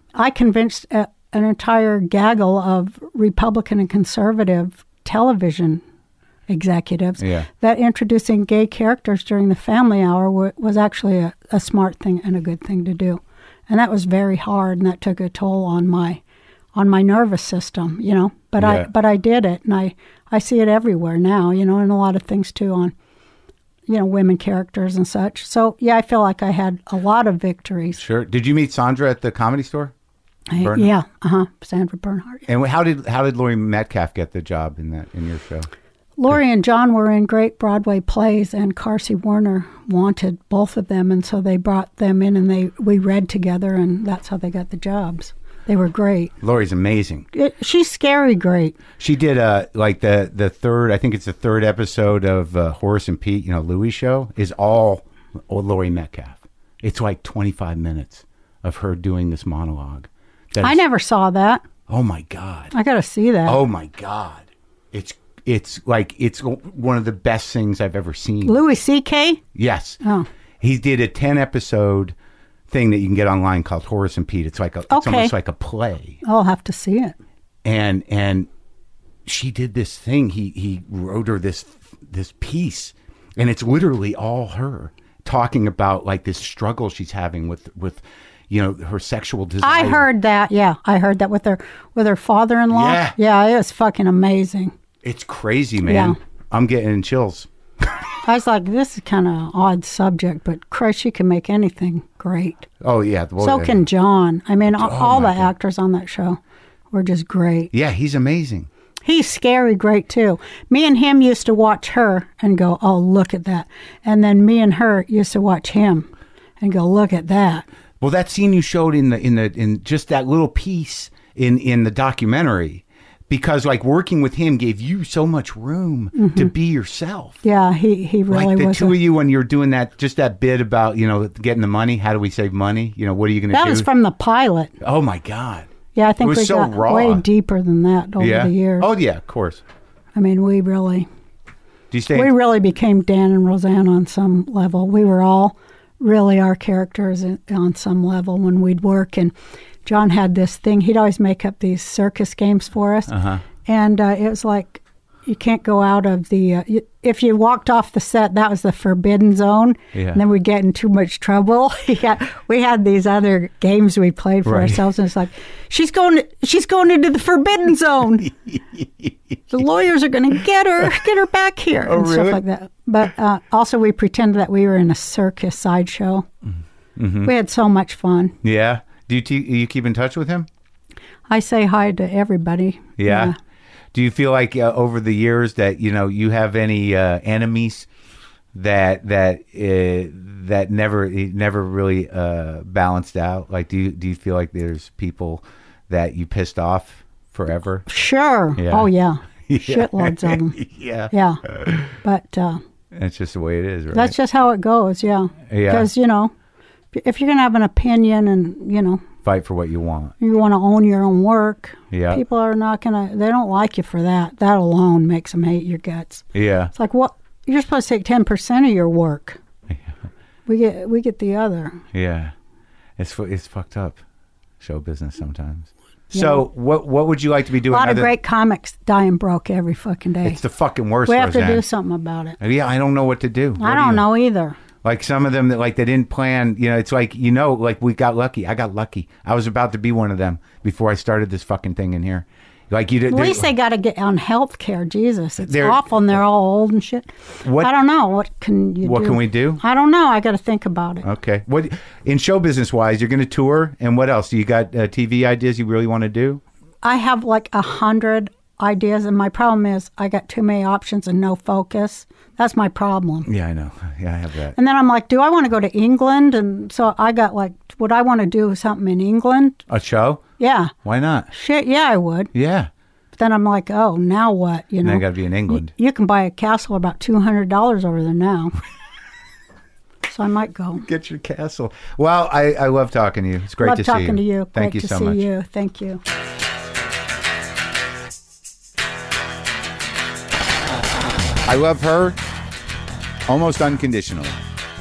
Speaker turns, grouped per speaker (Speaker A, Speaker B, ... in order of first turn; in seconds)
Speaker A: 0.1-5.8, 6.5-16.2, 16.7-22.9, 23.9-28.0, 30.5-32.5, 36.2-46.3, 47.3-48.8, 60.6-61.6, 62.7-63.6, 68.4-69.4, 70.0-70.3, 74.9-75.3, 76.2-77.2, 89.6-94.7, 95.8-96.2, 98.2-102.7, 103.4-106.4, 106.9-107.7, 109.0-117.7, 126.2-126.5, 127.4-129.0, 133.5-134.7, 135.9-138.9, 140.1-141.1, 142.1-149.3, 149.8-168.3, 169.5-176.3, 177.2-178.3, 181.3-183.3, 197.8-200.6, 201.1-201.4, 202.0-202.6, 203.9-206.3, 206.9-209.1, 210.2-219.4, 220.5-221.8, 226.2-226.4, 227.7-230.4, 231.1-232.4, 233.6-234.6, 243.1-251.1, 256.8-263.3, 264.6-269.6, 270.4-270.7, 271.3-272.3, 273.1-278.6, 280.1-280.9, 283.6-286.0
Speaker B: 7.2-7.5, 18.6-18.9, 27.9-29.9, 30.6-30.9, 32.5-35.7, 46.4-47.3, 49.0-60.8, 61.9-62.7, 63.4-68.6, 69.5-70.0, 70.6-72.1, 72.7-76.2, 77.6-78.5, 79.3-90.1, 92.7-93.1, 95.0-97.5, 102.8-103.8, 104.7-105.5, 107.7-108.7, 118.0-127.4, 128.3-133.9, 134.8-135.7, 136.2-137.2, 138.2-139.6, 141.9-142.3, 153.1-153.4, 159.9-160.2, 164.4-164.9, 171.8-172.4, 176.9-177.3, 178.4-180.5, 183.0-183.3, 183.9-187.9, 188.5-197.8, 198.6-198.9, 199.5-201.9, 202.9-204.1, 205.5-205.9, 209.2-210.1, 211.9-212.2, 216.3-216.7, 219.7-219.9, 221.9-222.3, 223.0-224.0, 224.6-228.1, 230.2-231.6, 232.4-234.0, 234.8-243.5, 245.4-245.8, 247.4-247.7, 248.8-249.6, 251.0-256.4, 263.3-264.6, 269.7-270.2, 270.8-271.3, 272.3-272.7, 274.8-275.7, 280.9-285.2, 291.4-292.2, 293.3-294.4